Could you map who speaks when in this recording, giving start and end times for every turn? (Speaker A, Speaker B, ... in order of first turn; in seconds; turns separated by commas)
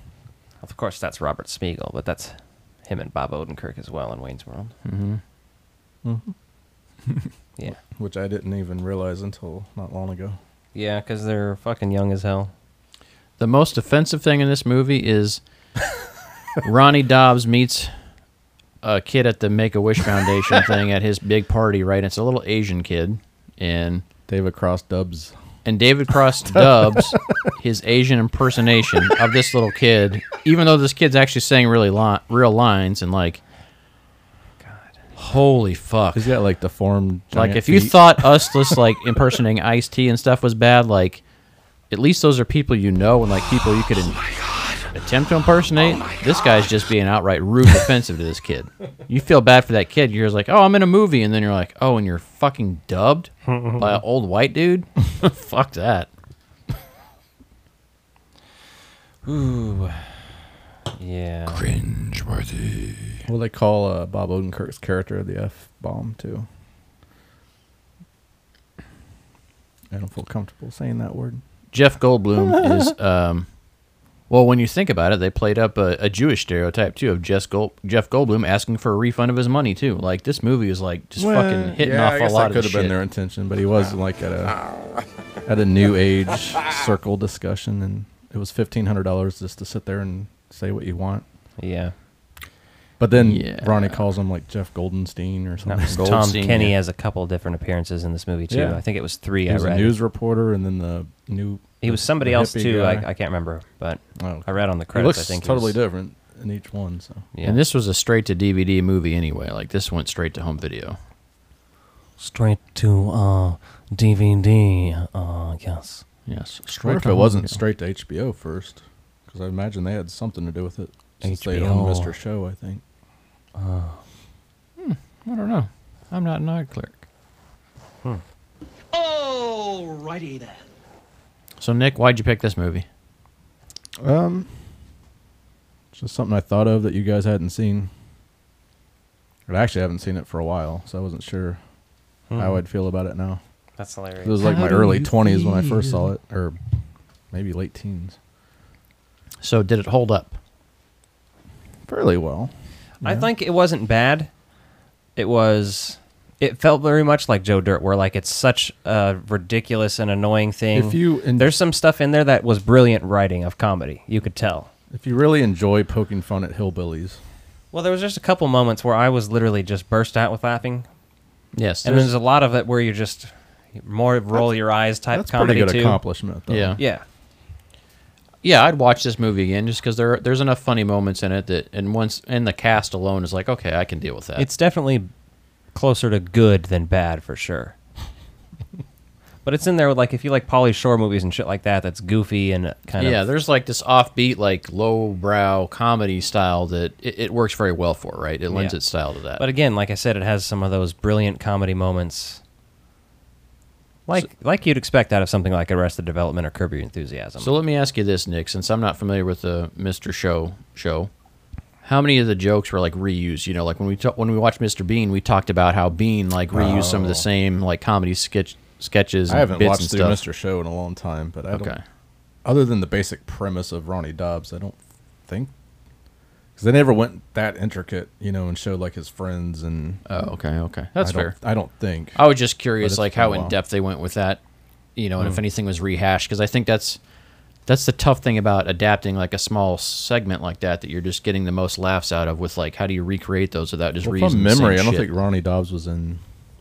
Speaker A: 0.6-4.7, Speaker B: 4.8-5.2, Speaker C: 6.0-6.3, Speaker C: 7.7-10.4, Speaker A: 10.7-12.5, Speaker B: 13.4-15.4, Speaker B: 16.6-17.9, Speaker B: 18.8-24.0, Speaker C: 24.3-25.4, Speaker B: 25.6-33.4, Speaker C: 26.5-27.1, Speaker A: 34.6-35.0, Speaker B: 35.2-36.3, Speaker C: 36.1-38.6, Speaker B: 37.3-41.2, Speaker B: 41.9-44.2, Speaker B: 44.9-56.1, Speaker A: 59.3-60.0, Speaker A: 61.0-61.6, Speaker B: 61.5-63.2, Speaker C: 63.3-66.5, Speaker C: 69.9-71.4, Speaker B: 71.7-73.5, Speaker B: 74.3-83.0, Speaker C: 81.2-84.6, Speaker C: 85.5-91.3, Speaker A: 91.6-91.9, Speaker C: 93.0-96.1, Speaker B: 93.2-94.0, Speaker A: 95.7-100.0, Speaker B: 95.9-96.8, Speaker C: 98.5-98.8, Speaker C: 99.5-103.1, Speaker A: 101.8-105.8, Speaker C: 104.2-107.2, Speaker A: 107.3-107.6, Speaker B: 107.4-111.0, Speaker A: 112.2-116.0, Speaker B: 116.3-117.6, Speaker C: 116.7-122.8, Speaker A: 121.2-122.1, Speaker A: 123.5-124.0, Speaker B: 124.8-127.0, Speaker B: 131.6-132.9, Speaker C: 134.0-134.5, Speaker C: 135.9-137.9, Speaker C: 139.5-141.6, Speaker A: 142.3-142.6, Speaker C: 142.3-143.4, Speaker A: 143.8-144.4, Speaker C: 144.2-146.6, Speaker B: 144.4-146.1, Speaker C: 147.3-148.2, Speaker B: 149.4-150.3, Speaker C: 151.9-153.3, Speaker A: 153.0-154.3, Speaker A: 155.2-164.7, Speaker C: 160.7-161.5, Speaker C: 164.9-167.2, Speaker A: 167.7-170.9, Speaker B: 171.5-172.1, Speaker A: 171.8-176.0, Speaker C: 175.1-176.8, Speaker B: 176.5-176.8, Speaker A: 176.8-177.1, Speaker B: 178.4-184.5, Speaker A: 184.4-185.1, Speaker A: 185.7-187.8, Speaker A: 189.4-193.2, Speaker B: 193.0-199.4, Speaker A: 198.5-198.8, Speaker A: 199.4-202.4, Speaker A: 204.1-207.5, Speaker B: 207.4-211.1, Speaker B: 211.8-220.2, Speaker C: 216.5-217.2, Speaker C: 219.3-221.7, Speaker B: 221.5-221.8, Speaker C: 222.4-225.5, Speaker C: 226.6-230.0, Speaker B: 230.1-231.4, Speaker C: 231.0-232.3, Speaker B: 232.2-234.4, Speaker C: 232.8-233.6, Speaker B: 235.0-237.0, Speaker B: 237.7-245.1, Speaker C: 244.0-246.2